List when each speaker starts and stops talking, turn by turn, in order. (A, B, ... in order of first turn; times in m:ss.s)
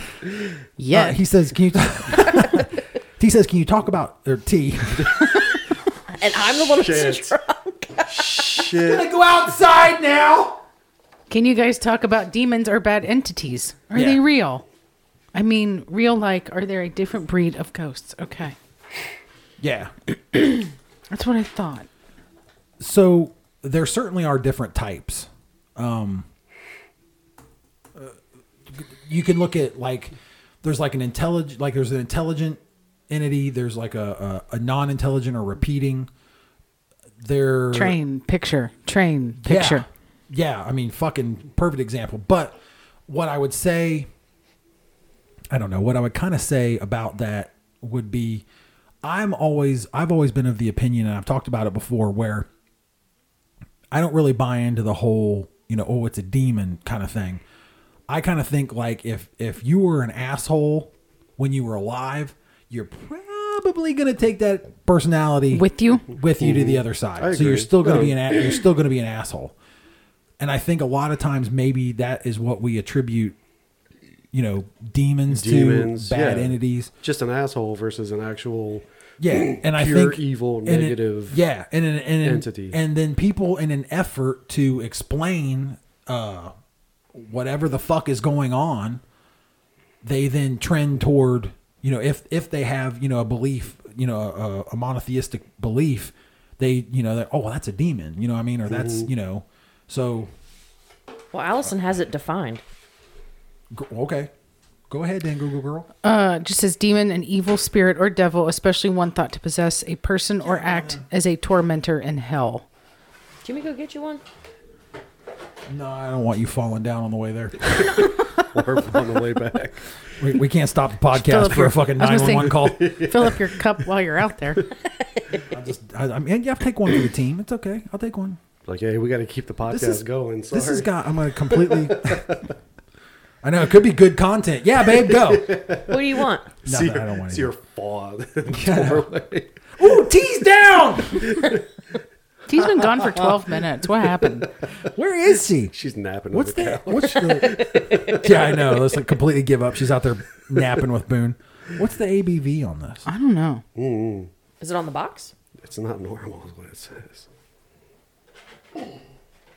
0:00.8-0:01.2 A
0:00.9-0:05.4 B
0:06.1-0:08.6 C
0:06.7-0:07.3 D
0:08.1-0:09.1 D
0:08.1-0:10.6 B
0:11.3-0:14.6 A
0:13.9-0:14.2 B
0:15.3-0:18.6 A
0:19.6-0:19.9 B
0:20.3-0:21.9 A
0:22.8-0:26.3 B
0:28.7-0:36.1 B
0:37.2-0:38.0 B
0:37.7-0:39.9 A
0:39.4-0:42.6 B
0:43.1-0:44.1 B
0:45.5-0:48.4 B
0:49.0-0:52.5 B
0:53.9-0:57.4 B
0:58.1-1:09.5 B
1:05.5-1:06.1 A
1:06.4-1:08.6 D
1:10.4-1:13.4 B
1:14.3-1:16.9 B
1:15.3-1:21.4 D
1:19.2-1:26.5 B
1:22.2-1:22.8 D
1:27.1-1:29.0 B
1:30.0-1:40.3 B
1:38.7-1:39.1 D
1:41.3-1:42.6 C
1:43.7-1:44.3 B
1:44.9-1:45.9 B
1:46.0-1:52.6 A
1:50.4-1:51.0 B
1:53.4-1:54.2 C
1:55.7-1:58.1 B
1:58.4-1:59.9 D
2:00.2-2:03.0 B
2:01.1-2:04.7 A
2:02.1-2:03.5 D
2:05.5-2:08.4 B
2:08.7-2:10.9 D
2:09.7-2:12.3 B
2:11.5-2:12.4 D
2:13.4-2:15.6 B
2:15.1-2:15.9 D
2:15.9-2:16.5 C
2:16.6-2:19.7 D
2:16.6-2:17.5 B
2:18.5-2:19.1 B
2:19.8-2:21.5 B
2:21.2-2:21.6 D
2:22.5-2:24.5 A
2:24.9-2:25.7 B
2:25.7-2:28.5 D
2:26.3-2:33.1 B
2:27.3-2:28.3 C
2:33.1-2:33.6 A
2:33.8-2:34.3 D
2:34.6-2:35.3 C
2:35.6-2:37.3 D